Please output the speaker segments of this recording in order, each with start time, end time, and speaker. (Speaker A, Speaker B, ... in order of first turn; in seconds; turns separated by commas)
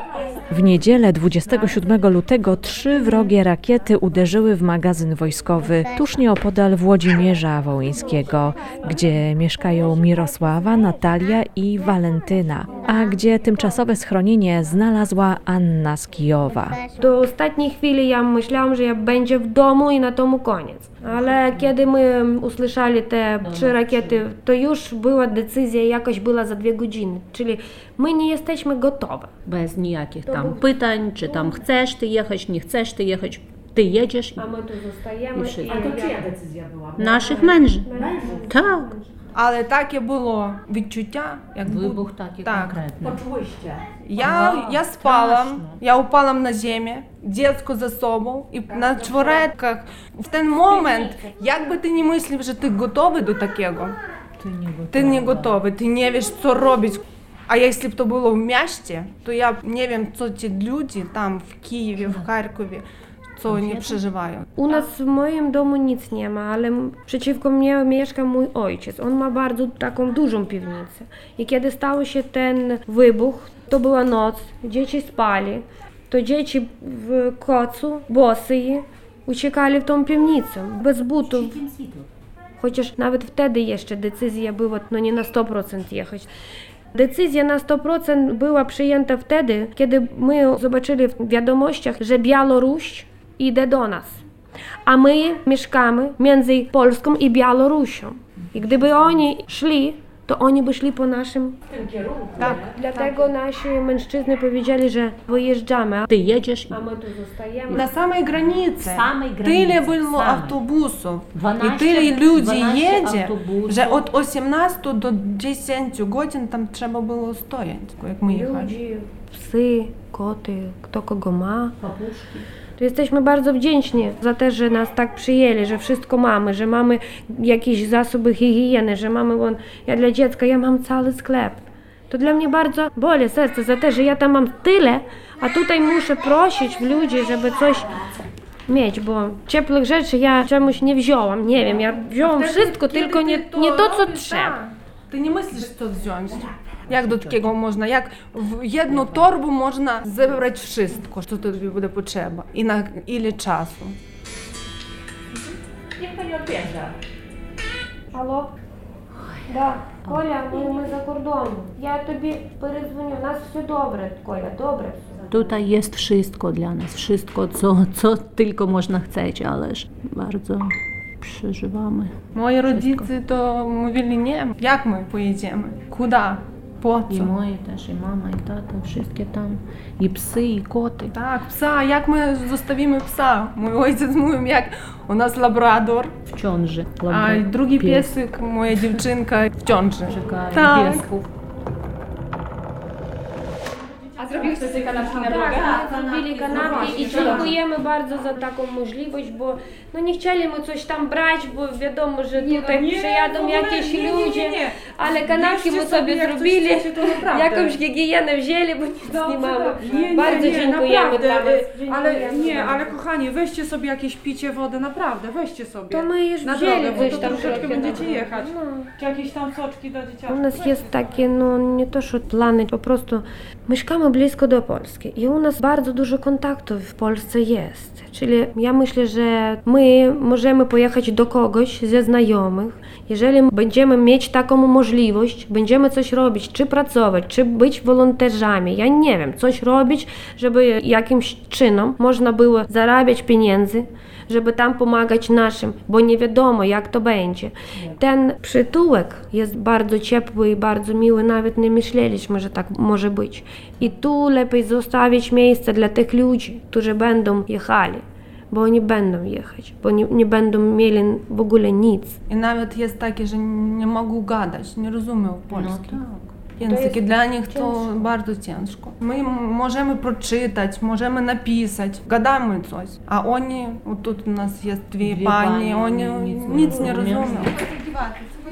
Speaker A: 0.5-16.8, Speaker B: 17.0-29.3, Speaker C: 21.3-21.6, Speaker C: 23.4-24.2, Speaker C: 29.4-34.5, Speaker B: 30.3-31.6, Speaker B: 34.4-36.2, Speaker C: 35.4-35.7, Speaker D: 35.6-38.5, Speaker C: 37.0-38.9, Speaker B: 37.2-39.1, Speaker E: 39.4-42.9, Speaker C: 41.6-43.2, Speaker D: 43.0-43.9, Speaker E: 44.0-53.9, Speaker C: 44.2-45.8, Speaker D: 48.7-49.5, Speaker D: 50.8-51.0, Speaker C: 54.4-55.6, Speaker E: 54.9-62.9, Speaker E: 63.4-64.5, Speaker C: 63.5-64.0, Speaker B: 64.6-81.5, Speaker C: 81.2-82.1, Speaker B: 82.6-86.3, Speaker B: 86.9-94.2, Speaker B: 94.9-101.6, Speaker D: 101.7-103.2, Speaker E: 102.4-102.6, Speaker B: 102.7-106.1, Speaker C: 106.1-106.8, Speaker B: 106.7-107.9, Speaker E: 107.7-118.7, Speaker C: 108.8-110.6, Speaker C: 111.3-114.1, Speaker B: 118.3-121.8, Speaker C: 121.8-122.5, Speaker B: 122.8-137.9, Speaker B: 138.7-144.6, Speaker E: 142.2-153.9, Speaker C: 146.9-147.4, Speaker D: 156.0-156.9, Speaker B: 158.1-158.5, Speaker B: 159.5-165.1, Speaker C: 165.3-173.1, Speaker E: 172.3-177.3, Speaker C: 177.1-181.1, Speaker E: 181.1-186.1, Speaker C: 186.3-188.2, Speaker E: 187.1-191.1, Speaker C: 190.1-191.3, Speaker F: 194.2-195.8, Speaker G: 194.7-195.9, Speaker B: 195.2-212.9, Speaker G: 196.4-197.5, Speaker C: 196.4-197.4, Speaker F: 196.6-197.5, Speaker G: 202.4-207.8, Speaker G: 209.0-220.8, Speaker B: 215.9-218.9, Speaker B: 220.3-262.2, Speaker E: 262.3-277.5, Speaker C: 265.5-266.1, Speaker B: 266.6-268.1, Speaker C: 275.0-277.6